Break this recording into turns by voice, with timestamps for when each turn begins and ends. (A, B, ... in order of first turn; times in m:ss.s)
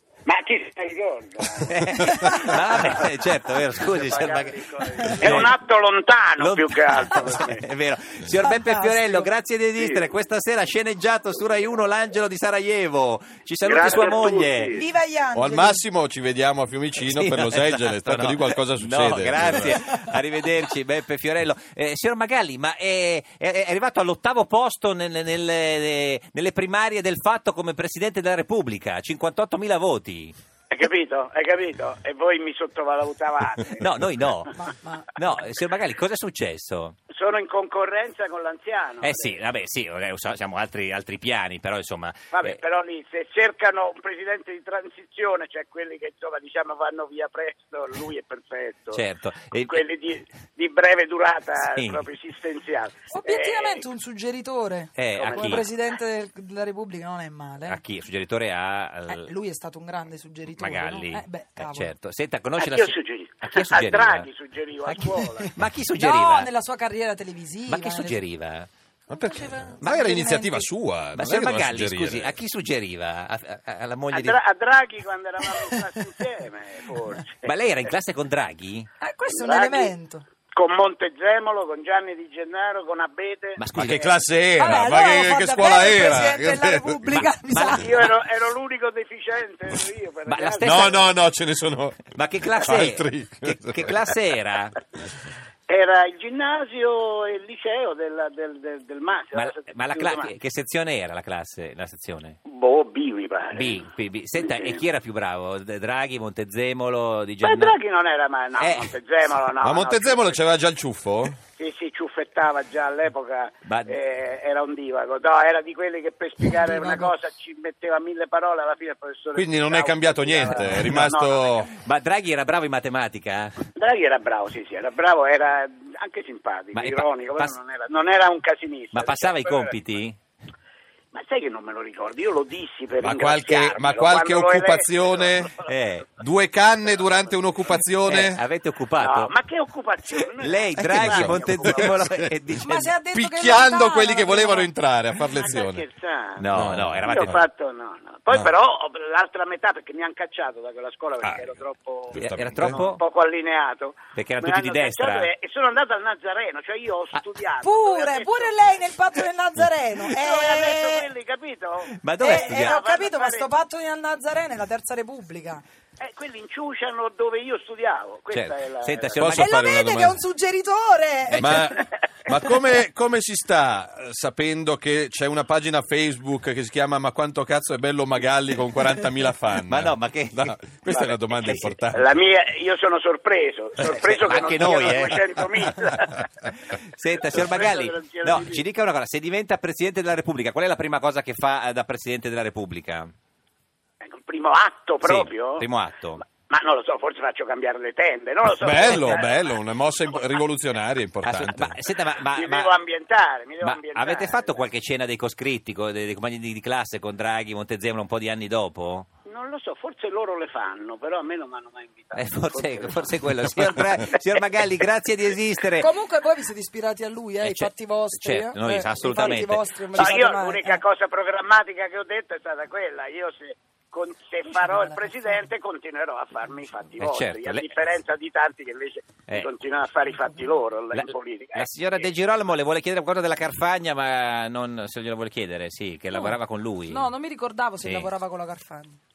0:00.2-0:03.0 A
0:01.6-0:05.5 B
0:04.1-0:07.6 A
0:06.4-0:14.8 B
0:08.4-0:09.2 C
0:13.6-0:14.8 A
0:14.7-0:15.8 C
0:15.3-0:19.8 D
0:17.0-0:30.3 B
0:30.7-0:33.9 A
0:33.7-0:36.9 B
0:34.6-0:35.1 C
0:37.1-0:39.4 A
0:39.0-0:42.6 B
0:42.3-0:49.0 A
0:48.9-0:49.8 B
0:49.7-0:53.8 A
0:51.6-0:52.0 B
0:53.1-0:57.8 C
0:55.0-0:55.6 B
0:55.2-0:55.7 A
0:57.7-0:59.3 B
0:59.1-1:01.9 C
1:00.6-1:04.3 B
1:02.6-1:05.5 A
1:04.8-1:06.5 B
1:06.0-1:08.2 C
1:07.7-1:08.7 B
1:09.1-1:10.7 C
1:09.1-1:12.3 D
1:11.2-1:14.4 B
1:14.1-1:17.5 A
1:15.6-1:15.8 C
1:17.4-1:18.9 B
1:19.0-1:20.2 C
1:19.3-1:19.9 A
1:20.5-1:23.9 A
1:23.6-1:24.1 B
1:23.7-1:27.2 D
1:24.6-1:27.8 C
1:27.1-1:28.1 B
1:27.7-1:31.0 A
1:30.3-1:31.0 B
1:30.6-1:34.0 D
1:32.1-1:34.8 B
1:35.7-1:40.3 A
1:39.3-1:42.4 B
1:42.4-1:43.8 A
1:43.5-1:47.7 B
1:44.4-1:44.8 A
1:47.4-1:50.4 A
1:48.6-1:48.9 B
1:49.6-1:51.4 D
1:51.6-2:01.7 A
1:53.6-1:54.0 B
1:56.6-1:57.1 C
1:59.4-2:01.7 D
2:01.8-2:03.6 B
2:03.7-2:09.7 A
2:06.7-2:07.6 B
2:08.9-2:10.2 B
2:11.1-2:15.7 A
2:13.0-2:15.5 D
2:15.6-2:16.1 B
2:16.2-2:18.4 D
2:18.1-2:19.3 B
2:19.0-2:21.9 A
2:20.4-2:22.9 B
2:20.8-2:22.2 D
2:22.6-2:24.7 C
2:23.1-2:25.8 D
2:25.3-2:26.5 A
2:26.4-2:27.4 B
2:26.5-2:27.4 D
2:27.0-2:38.5 A
2:31.2-2:31.5 D
2:32.1-2:32.8 D
2:32.1-2:33.0 B
2:34.1-2:35.3 B
2:37.6-2:41.1 C
2:40.0-2:43.5 A
2:42.0-2:42.8 B
2:42.2-2:45.6 C
2:46.0-2:49.2 A
2:48.3-2:49.5 B
2:49.2-2:50.2 D
2:49.4-2:51.6 C
2:51.3-2:51.7 B
2:51.4-3:02.0 D
2:59.6-3:00.6 B
3:00.9-3:06.3 A
3:01.4-3:01.7 B
3:03.9-3:05.2 B
3:06.6-3:13.1 B
3:07.3-3:08.6 A
3:14.0-3:15.6 A
3:15.0-3:16.2 B
3:16.3-3:19.6 A
3:18.4-3:21.8 D
3:21.2-3:22.7 B
3:22.3-3:24.6 A
3:23.6-3:29.1 B
3:29.3-3:33.2 A
3:32.1-3:35.9 B
3:35.8-3:40.8 C
3:37.4-3:40.0 B
3:39.9-3:52.1 A
3:47.0-3:47.7 B
3:50.9-3:57.1 B
3:56.9-3:59.0 C
3:57.8-3:58.1 B